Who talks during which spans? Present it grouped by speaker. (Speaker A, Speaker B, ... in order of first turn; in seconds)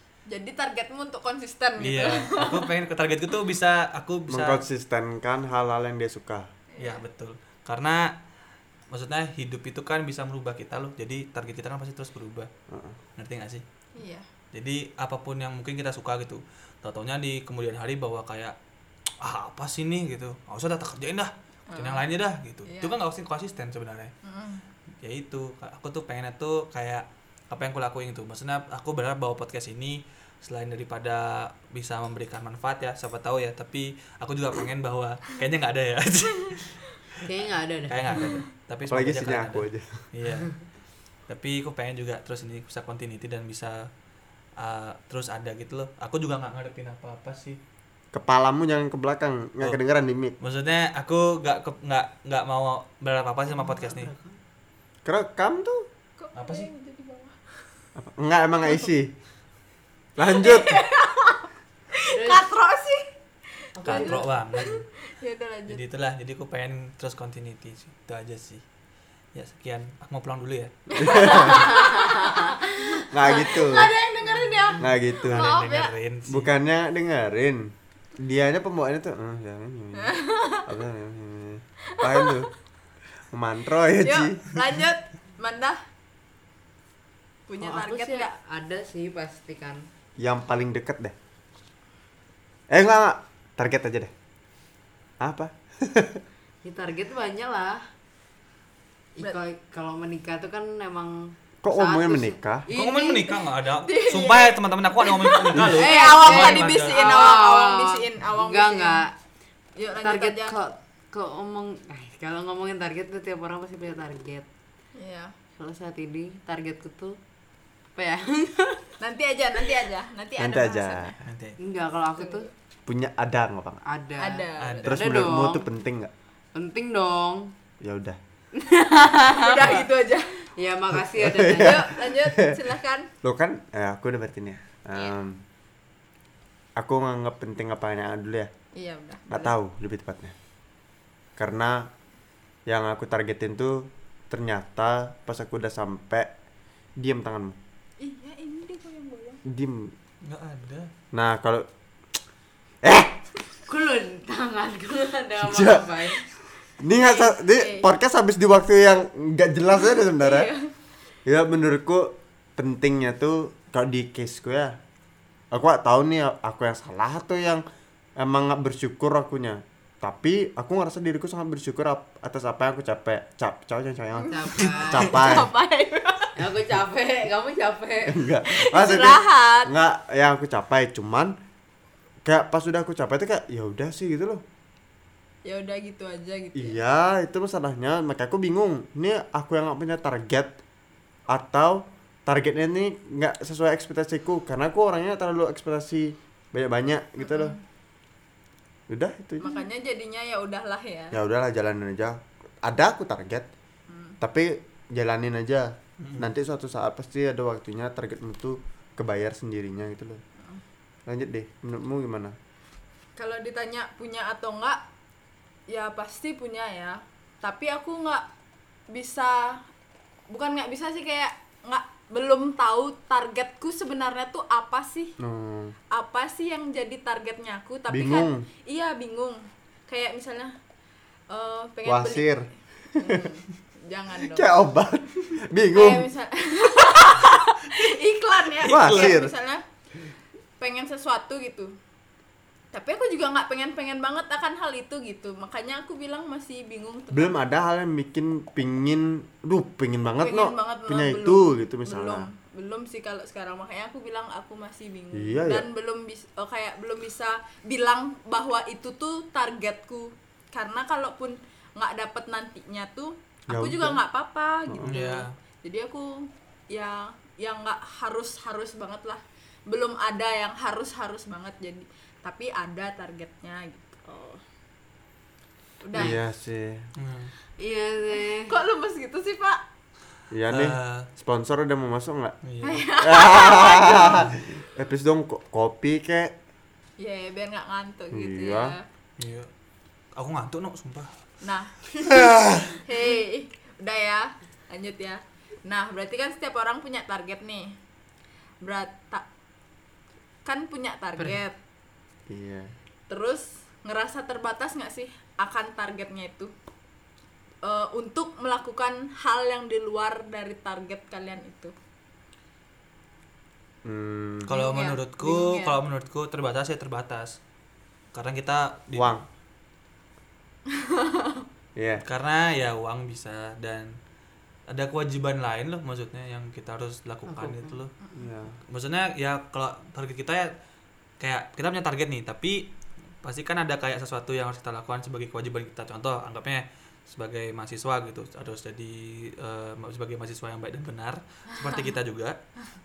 Speaker A: 0.3-2.7, 6.8-7.0, 13.9-14.2, 21.7-22.1, 22.7-22.9, 24.2-24.6, 56.2-57.5, 60.2-63.1, 63.8-65.8, 70.9-75.9, 80.0-80.7, 82.0-82.5, 84.0-85.8, 87.5-88.3, 103.7-109.0, 109.8-110.5, 115.0-115.3, 119.0-121.2, 122.2-122.5, 124.2-124.9, 129.3-130.4, 131.5-133.1, 138.7-139.5, 148.0-149.4, 156.9-157.9, 159.8-160.7, 174.2-176.4, 178.5-179.7, 185.4-186.8, 197.2-197.6, 199.4-201.2, 203.9-204.2, 213.2-214.8, 215.7-218.2, 218.9-219.6, 220.3-225.2, 225.9-230.6, 231.3-232.3, 233.0-234.5, 235.7-239.6, 240.6-241.7, 242.7-247.3, 250.2-274.4, 275.8-276.2, 278.5-279.6, 282.6-284.3, 287.0-288.8, 291.4-297.8, 298.6-299.2, 300.4-301.6, 303.1-306.5, 307.6-311.7, 314.5-315.8, 320.7-321.4
Speaker B: 1.8-4.6, 6.8-8.2, 8.9-12.5, 13.2-13.6, 14.5-18.6, 19.2-24.1, 25.0-37.0, 37.9-40.5, 41.3-43.9, 44.6-47.6, 50.4-54.1, 56.3-56.7, 63.8-64.8, 65.7-68.6, 69.3-71.4, 75.2-76.5, 102.7-107.2, 121.2-121.6, 124.6-124.9, 150.2-150.9, 206.0-206.3, 238.6-239.2, 264.8-265.3, 276.9-277.3, 280.5-281.1, 282.4-282.9, 289.2-289.5, 290.1-291.1, 314.4-317.4, 318.1-319.2, 322.0-323.9, 324.7-327.9, 328.7-330.5, 331.2-332.7, 333.2-342.4
Speaker C: 4.3-6.5, 12.7-13.0, 38.9-39.9, 48.1-50.4, 55.0-55.9, 58.0-59.1, 60.2-60.8, 71.0-71.8, 73.1-73.9, 74.8-75.5, 76.3-82.5, 83.3-84.5, 90.2-91.1, 92.7-94.1, 95.2-96.2, 101.6-102.7, 120.4-121.1, 122.9-123.8, 124.8-126.1, 127.8-128.2, 130.9-132.6, 133.2-135.4, 136.8-138.5, 139.3-140.3, 141.4-141.9, 142.7-146.3, 147.0-147.6, 149.4-149.9, 151.1-151.7, 152.8-153.2, 155.4-155.9, 156.8-160.5, 161.2-164.8, 165.5-167.6, 168.2-175.5, 178.1-181.3, 182.2-184.4, 186.5-190.6, 191.3-197.6, 198.9-199.6, 201.1-203.5, 204.2-210.2, 211.1-212.3, 225.2-225.7, 227.9-228.4, 231.8-233.3, 234.2-236.1, 238.7-239.3, 247.1-252.3, 255.1-255.7, 263.5-264.0, 264.7-264.9, 275.9-276.9, 280.3-282.4, 282.9-286.4, 288.1-288.8, 292.1-292.7, 302.3-302.7, 313.8-314.5, 318.9-319.2, 321.8-322.0, 328.1-328.6
Speaker D: 37.2-38.3, 53.5-54.3, 62.1-62.5, 63.8-64.2, 71.5-72.8, 74.3-74.7, 87.6-89.8, 96.6-97.8, 99.2-103.3, 105.7-109.1, 109.9-114.5, 115.6-117.2, 118.0-118.9, 121.6-122.5, 123.8-125.7, 126.5-127.5, 128.6-129.8, 130.6-131.8, 153.7-156.2, 174.2-175.2, 176.3-178.2, 277.6-278.5, 327.3-327.7